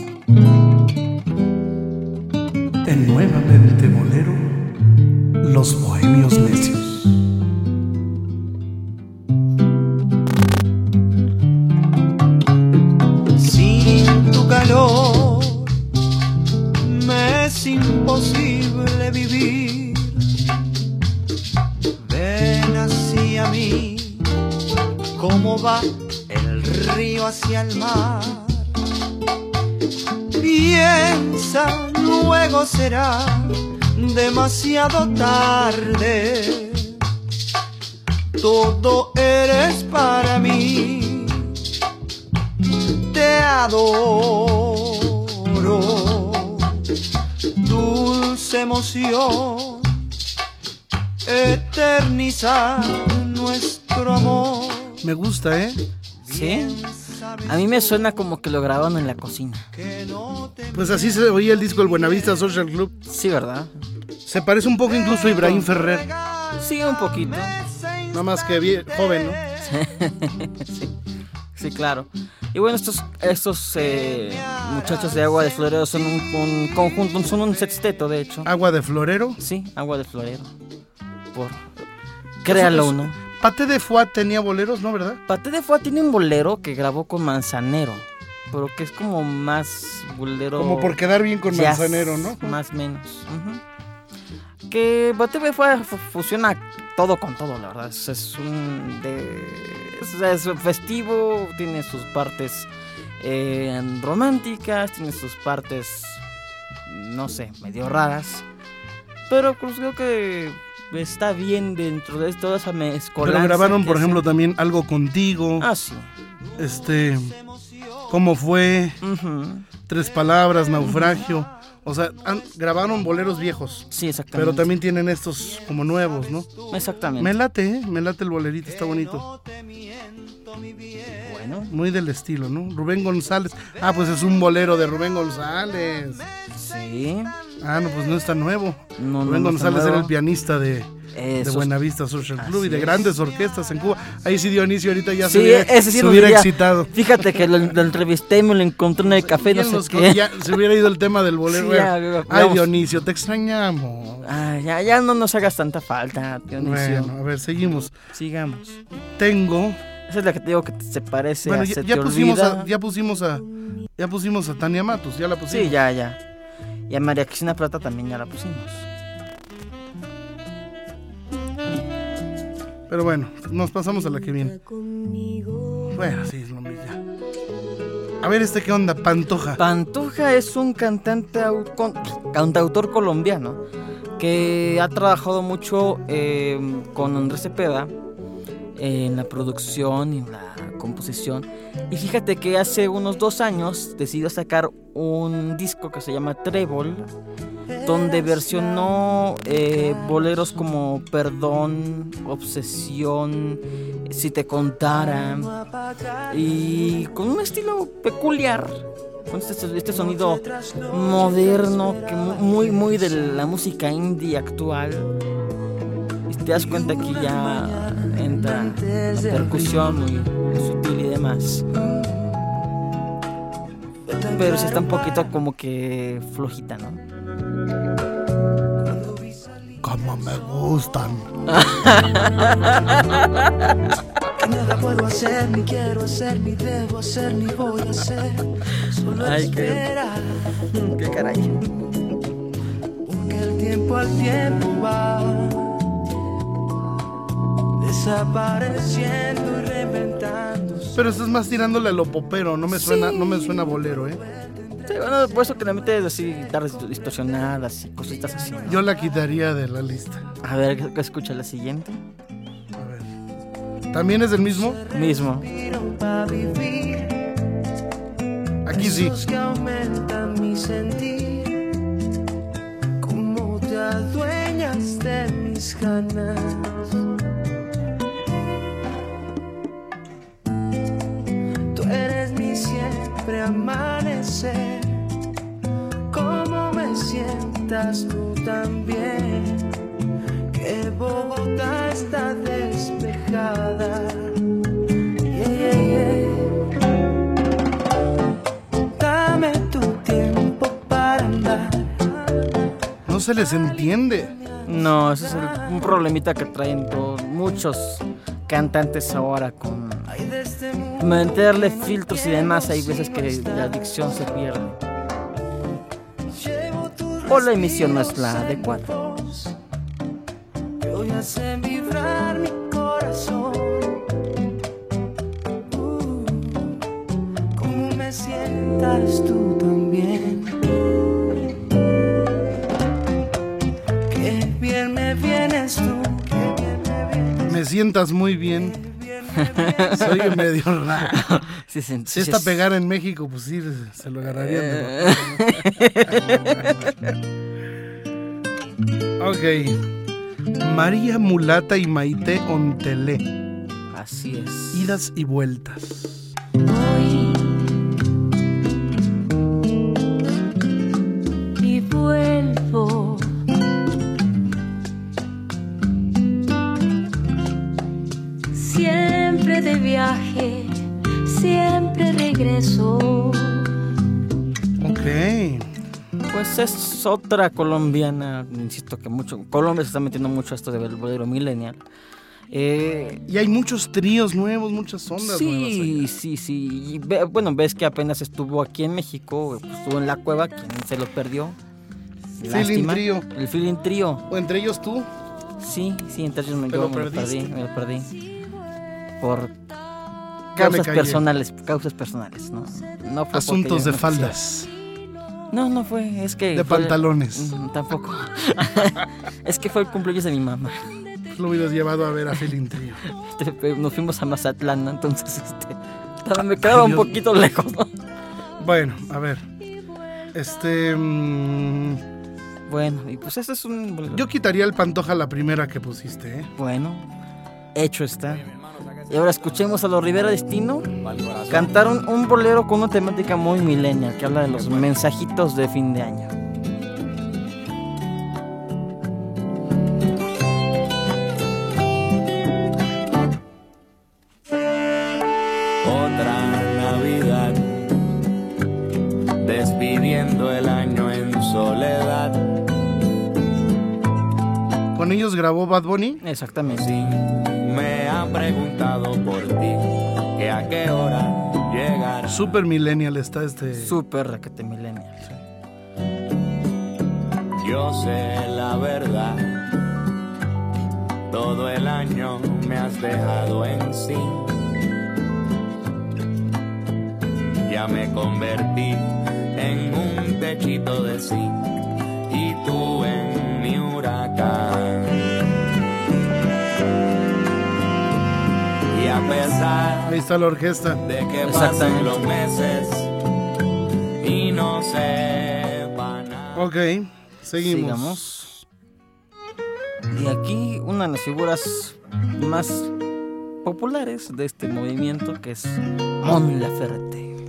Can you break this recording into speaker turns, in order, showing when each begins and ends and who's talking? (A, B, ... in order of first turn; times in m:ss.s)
0:02.8-0:04.7 A
0:05.4-0:07.1 A
0:13.4-0:15.7 B
0:16.8-0:20.2 B
0:22.0-0:24.2 B
0:25.2-0:28.6 B
0:30.4-0:37.0 B
0:38.4-0:41.5 B
0:43.1-0:46.8 B
0:47.6-0:50.0 B
0:51.2-0:55.0 B
0:55.0-0:55.8 A
0:56.2-0:58.0 B
0:56.3-0:56.8 C
0:57.5-0:59.7 C
0:59.7-1:01.0 B
1:00.7-1:03.0 A
1:03.1-1:03.7 C
1:04.2-1:06.1 A
1:05.4-1:05.7 C
1:06.6-1:07.6 C
1:08.1-1:09.4 A
1:09.6-1:10.9 C
1:11.6-1:18.5 C
1:18.4-1:19.4 A
1:19.4-1:20.5 C
1:21.3-1:21.7 C
1:22.4-1:23.2 C
1:22.4-1:25.2 A
1:25.3-1:33.6 C
1:30.6-1:32.6 A
1:34.7-1:42.7 C
1:43.2-1:46.2 C
1:46.9-1:48.4 C
1:49.3-1:54.2 C
1:53.2-1:55.7 A
1:55.6-1:56.1 C
1:56.6-1:57.4 A
1:58.1-1:59.0 A
1:59.0-1:59.7 C
1:59.9-2:06.5 A
2:00.8-2:01.2 C
2:03.9-2:04.7 C
2:06.7-2:07.3 C
2:07.2-2:09.3 A
2:11.2-2:11.7 C
2:11.7-2:16.2 A
2:16.6-2:17.3 C
2:17.6-2:27.4 A
2:19.0-2:20.1 C
2:21.2-2:21.7 C
2:22.4-2:23.1 C
2:25.2-2:30.4 C
2:29.1-2:34.4 A
2:31.5-2:32.7 C
2:34.2-2:37.2 C
2:36.6-2:38.0 A
2:38.1-2:38.8 C
2:39.2-2:39.8 A
2:40.1-2:42.7 C
2:41.4-2:45.8 A
2:45.5-2:46.2 C
2:46.9-2:48.9 C
2:52.9-2:54.6 A
2:55.6-2:55.9 B
2:55.9-2:57.0 A
2:58.2-2:59.6 A
2:59.6-3:03.6 C
3:04.2-3:07.9 C
3:08.8-3:17.1 C
3:17.8-3:18.8 B
3:17.8-3:25.5 C
3:19.9-3:20.4 B
3:25.0-3:27.1 B
3:26.3-3:35.1 C
3:30.0-3:33.3 B
3:36.3-3:41.7 C
3:36.5-3:40.0 B
3:41.7-3:42.5 B
3:44.1-3:45.2 B
3:44.1-3:47.0 C
3:48.8-3:50.3 B
3:49.8-3:51.4 A
3:51.5-3:53.9 C
3:51.6-3:53.0 B
3:54.4-4:00.4 B
3:59.1-3:59.9 C
4:00.7-4:01.6 C
4:03.0-4:05.8 B
4:07.8-4:11.0 B
4:10.9-4:14.2 A
4:12.7-4:13.6 C
4:14.9-4:18.8 C
4:18.6-4:20.2 A
4:20.4-4:22.0 C
4:22.8-4:23.1 A
4:23.9-4:24.8 A
4:24.9-4:25.5 C
4:24.9-4:27.2 B
4:28.6-4:29.2 A
4:28.7-4:31.7 B
4:33.0-4:37.0 B
4:41.7-4:45.0 B
4:46.1-4:49.7 B
4:50.5-4:54.4 B
4:55.2-4:56.7 B
4:58.8-5:02.4 B
5:03.1-5:04.4 A
5:04.6-5:10.1 C
5:04.8-5:05.8 B
5:10.1-5:14.2 B
5:11.0-5:14.8 C
5:16.3-5:19.6 B
5:17.2-5:19.0 C
5:20.8-5:24.1 B
5:25.7-5:26.8 B
5:27.6-5:30.6 B
5:34.1-5:37.5 B
5:37.4-5:38.8 A
5:38.7-5:40.0 B
5:39.6-5:40.4 C
5:40.0-5:41.4 A
5:41.1-5:42.6 C
5:42.1-5:46.7 A
5:44.2-5:47.1 C
5:49.2-5:49.8 A
5:50.6-5:53.2 A
5:53.9-5:54.9 C
5:54.7-5:56.3 A
5:56.6-5:57.6 D
6:01.6-6:03.3 D
6:08.5-6:13.7 D
6:14.8-6:15.7 A
6:16.3-6:21.8 C
6:22.5-6:23.2 C
6:23.3-6:26.1 A
6:25.2-6:31.6 C
6:32.4-6:34.2 C
6:32.4-6:33.3 A
6:34.3-6:35.1 A
6:35.6-6:38.1 C
6:36.7-6:37.5 A
6:39.2-6:39.6 C
6:40.5-6:41.2 A
6:40.6-6:44.4 C
6:43.3-6:44.7 A
6:45.5-6:51.0 C
6:46.5-6:47.6 A
6:51.3-6:53.0 A
6:53.0-6:57.9 C
6:56.4-6:57.2 A
6:58.6-6:59.5 A
7:00.3-7:02.0 A
7:02.7-7:04.2 C
7:04.1-7:06.5 A
7:06.6-7:07.1 C
7:07.8-7:08.5 C
7:09.1-7:10.9 C
7:11.0-7:11.7 E
7:11.5-7:16.3 C
7:25.8-7:28.0 E
7:29.4-7:32.4 E
7:34.9-7:36.2 A
7:36.2-7:37.0 C
7:36.8-7:42.5 E
7:42.3-7:44.0 A
7:43.8-7:45.3 C
7:47.6-7:49.7 E
7:51.3-7:54.5 E
7:57.6-8:01.7 E
8:02.3-8:05.3 E
8:08.9-8:10.2 E
8:10.0-8:11.0 A
8:11.0-8:13.1 E
8:11.4-8:12.2 C
8:14.2-8:16.6 E
8:16.6-8:18.6 A
8:17.6-8:18.5 C
8:20.1-8:22.9 C
8:23.6-8:27.3 C